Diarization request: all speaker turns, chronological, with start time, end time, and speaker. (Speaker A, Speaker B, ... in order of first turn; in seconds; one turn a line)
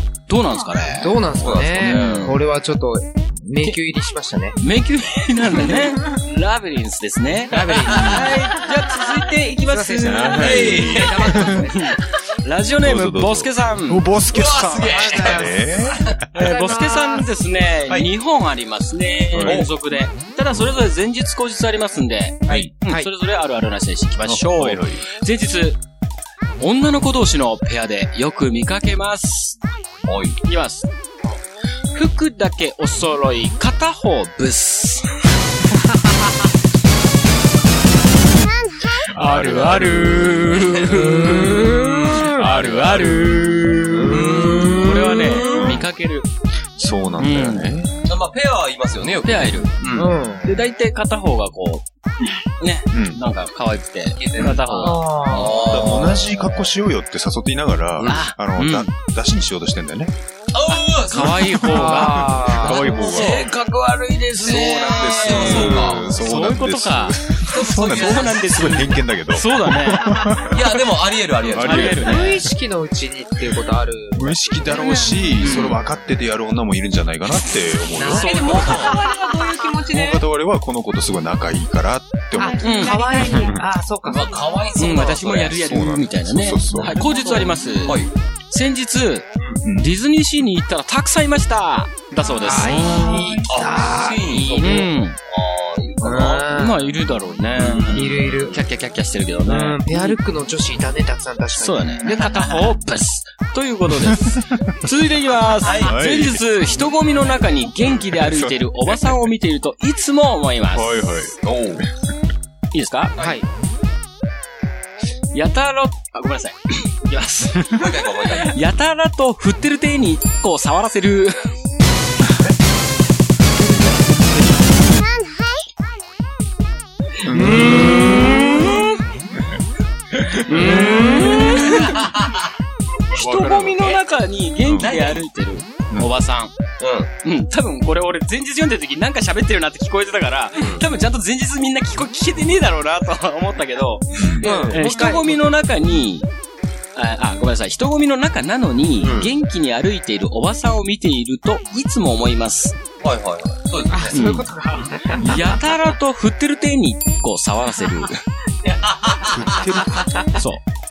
Speaker A: 0.3-2.4
Speaker B: 0.4-1.0
Speaker C: 1.0-4.6
Speaker D: 1.3-2.3
Speaker A: 4.6-14.1
Speaker B: 5.6-6.0
Speaker C: 7.5-8.3
Speaker C: 9.7-11.9
Speaker E: 10.0-11.7
Speaker D: 10.3-11.5
Speaker E: 12.8-16.2
Speaker D: 14.3-16.2
Speaker C: 14.9-15.8
Speaker C: 16.3-17.3
Speaker A: 16.3-25.8
Speaker E: 19.3-19.7
Speaker D: 19.4-19.7
Speaker E: 20.5-20.8
Speaker C: 22.5-23.1
Speaker E: 24.2-25.0
Speaker A: 26.6-29.6
Speaker D: 30.1-30.4
Speaker A: 30.4-31.3
Speaker A: 31.9-35.1
Speaker A: 39.1-46.3
Speaker E: 39.1-40.7
Speaker C: 41.0-42.4
Speaker E: 42.4-44.2
Speaker C: 43.9-45.7
Speaker D: 44.1-45.6
Speaker E: 45.5-45.9
Speaker E: 46.8-48.0
Speaker A: 47.2-47.7
Speaker D: 48.1-50.2
Speaker A: 49.2-49.7
Speaker C: 49.9-50.6
Speaker A: 50.4-51.9
Speaker A: 52.6-55.0
Speaker E: 52.9-53.2
Speaker D: 54.2-56.7
Speaker C: 54.7-55.7
Speaker E: 55.6-60.1
Speaker A: 58.0-58.9
Speaker D: 60.5-61.6
Speaker A: 61.1-70.2
Speaker E: 61.1-63.5
Speaker C: 61.7-63.2
Speaker D: 63.0-63.6
Speaker D: 64.4-66.2
Speaker E: 64.4-70.9
Speaker D: 67.5-68.8
Speaker B: 70.1-70.4
Speaker D: 70.5-72.2
Speaker E: 71.4-72.5
Speaker A: 71.6-72.4
Speaker C: 72.0-74.7
Speaker E: 74.1-78.9
Speaker B: 74.7-75.7
Speaker A: 75.4-75.7
Speaker D: 78.0-79.0
Speaker B: 78.1-80.2
Speaker E: 79.9-83.6
Speaker B: 82.3-83.6
Speaker A: 82.6-83.0
Speaker C: 82.8-84.6
Speaker D: 84.0-85.6
Speaker B: 84.3-84.8
Speaker A: 84.8-93.2
Speaker E: 85.5-87.0
Speaker B: 86.7-88.1
Speaker D: 87.9-88.1
Speaker E: 89.6-89.9
Speaker B: 92.2-94.0
Speaker C: 92.4-94.8
Speaker D: 93.5-96.5
Speaker A: 94.6-95.2
Speaker C: 96.0-96.9
Speaker A: 96.5-100.2
Speaker D: 97.5-98.5
Speaker C: 97.9-98.6
Speaker C: 99.4-102.0
Speaker A: 101.6-111.0
Speaker E: 104.0-104.7
Speaker D: 105.6-105.9
Speaker E: 105.7-109.3
Speaker E: 110.7-111.4
Speaker D: 111.4-111.8
Speaker A: 112.7-113.1
Speaker D: 113.1-113.4
Speaker C: 113.2-113.4
Speaker A: 115.3-117.8
Speaker D: 117.7-118.5
Speaker A: 118.4-121.5
Speaker E: 123.6-124.6
Speaker E: 127.2-128.8
Speaker C: 127.3-128.7
Speaker A: 127.4-128.8
Speaker E: 129.3-129.6
Speaker E: 130.1-131.5
Speaker A: 130.4-132.0
Speaker C: 130.7-131.5
Speaker D: 131.8-132.5
Speaker A: 133.1-136.5
Speaker E: 133.2-133.9
Speaker E: 134.6-135.0
Speaker D: 134.8-135.2
Speaker D: 136.8-137.1
Speaker A: 137.2-146.3
Speaker D: 140.6-140.9
Speaker E: 144.1-144.7
Speaker D: 144.2-144.7
Speaker C: 144.4-145.5
Speaker A: 146.9-152.8
Speaker D: 149.0-149.3
Speaker D: 153.0-154.4
Speaker C: 153.9-155.6
Speaker A: 154.1-154.5
Speaker A: 155.2-158.2
Speaker D: 158.6-160.0
Speaker E: 159.2-160.1
Speaker A: 160.3-160.6